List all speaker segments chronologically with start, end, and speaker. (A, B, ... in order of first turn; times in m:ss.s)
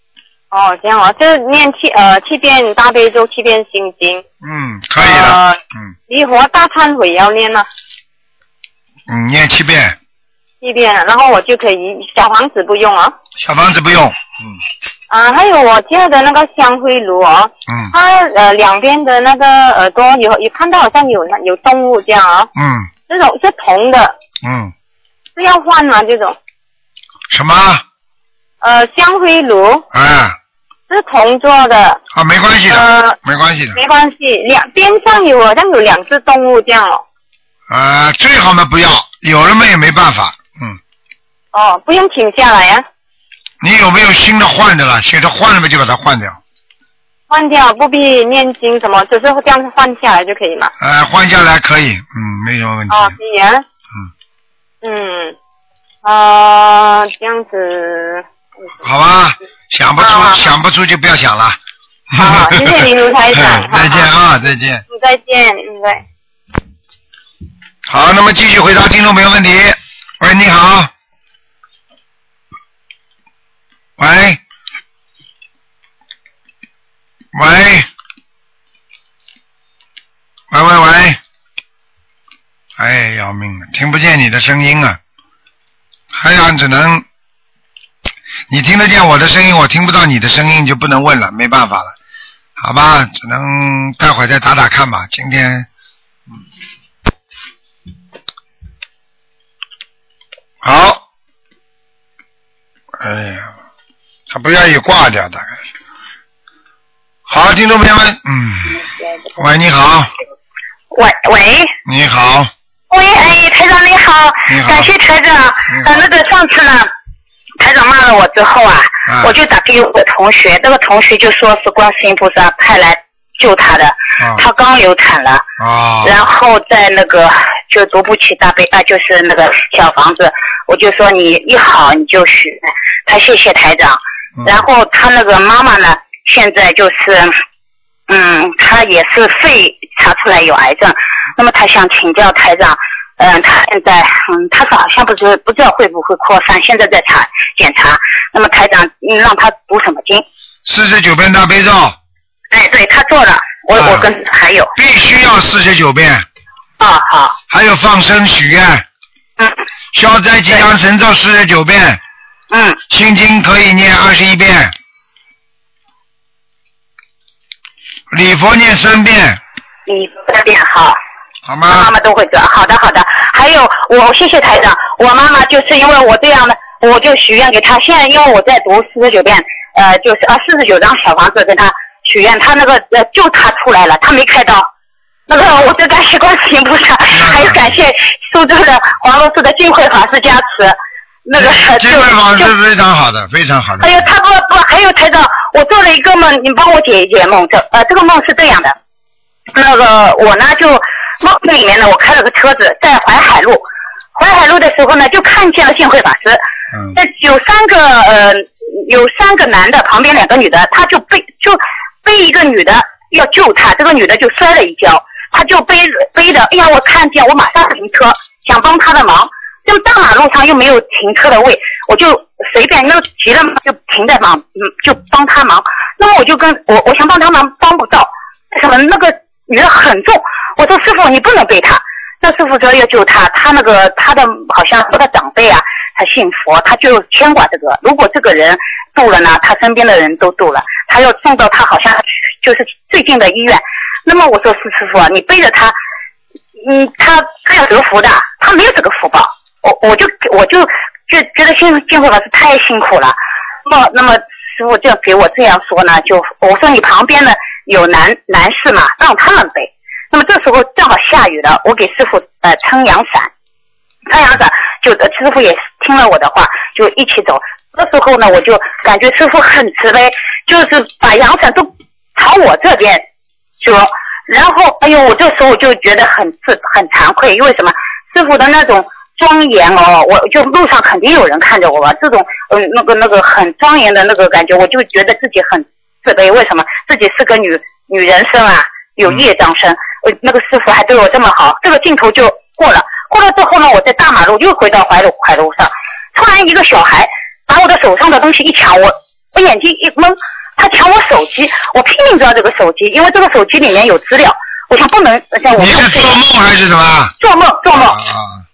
0:00.5-0:04.2 A
0:04.4-0:05.9 B
0:05.0-0:07.6 A
0:09.1-0:10.0 B
0:10.6-0:13.1 A
0:13.4-0:14.5 B
0:15.1-0:22.5 A
0:17.7-0:17.9 B
0:22.6-0:22.9 B
0:23.1-0:24.1 A
0:24.4-0:24.7 B
0:25.4-0:26.4 A
0:27.3-0:27.8 B
0:28.6-0:29.8 A
0:29.9-0:30.4 B
0:30.9-0:32.0 A
0:32.1-0:33.8 B
0:32.7-0:33.2 A
0:33.8-0:37.0 A
0:37.7-0:40.8 B
0:41.5-0:42.8 A
0:43.6-0:46.4 B
0:47.3-0:50.7 A
0:50.8-0:53.2 B
0:52.9-0:53.6 A
0:54.8-0:55.4 A
0:56.0-0:58.2 A
0:58.8-1:01.6 B
1:00.0-1:00.5 A
1:02.1-1:04.8 B
1:02.1-1:04.1 A
1:04.9-1:06.0 A
1:07.9-1:10.9 B
1:14.0-1:14.4 B
1:17.3-1:17.9 B
1:20.5-1:21.2 B
1:22.8-1:25.0 B
1:26.1-1:27.0 B
1:28.5-1:31.9 B
1:32.6-1:35.6 B
1:40.6-1:41.0 B
1:43.0-1:43.5 B
1:44.3-1:45.6 B
1:47.3-1:48.8 B
1:49.4-1:50.1 B
1:50.9-1:51.7 C
1:51.9-1:52.5 B
1:52.9-1:56.9 C
1:54.5-1:54.9 B
1:55.7-1:56.0 B
1:57.6-2:05.5 C
1:59.1-1:59.4 B
2:05.6-2:06.2 B
2:06.0-2:17.4 C
2:18.1-2:30.2 C
2:30.6-2:32.0 B
2:32.5-2:34.7 C
2:33.8-2:34.1 B
2:34.8-2:36.2 B
2:36.8-2:37.4 C
2:37.5-2:38.8 B
2:39.9-2:42.0 B
2:42.5-2:42.8 C
2:42.9-2:44.7 B
2:48.1-2:49.4 B
2:49.9-2:51.0 C
2:51.5-2:51.9 B
2:51.7-3:04.7 C
3:05.3-3:12.5 C
3:07.1-3:07.8 B
3:11.4-3:14.0 B
3:13.8-3:18.8 C
3:19.5-3:23.6 C
3:24.1-3:26.4 C
3:26.9-4:05.8 C
4:06.6-4:23.3 C
4:24.1-4:33.0 C
4:33.6-5:06.2 C
5:05.6-5:07.1 B
5:07.2-5:08.0 C
5:07.7-5:08.4 B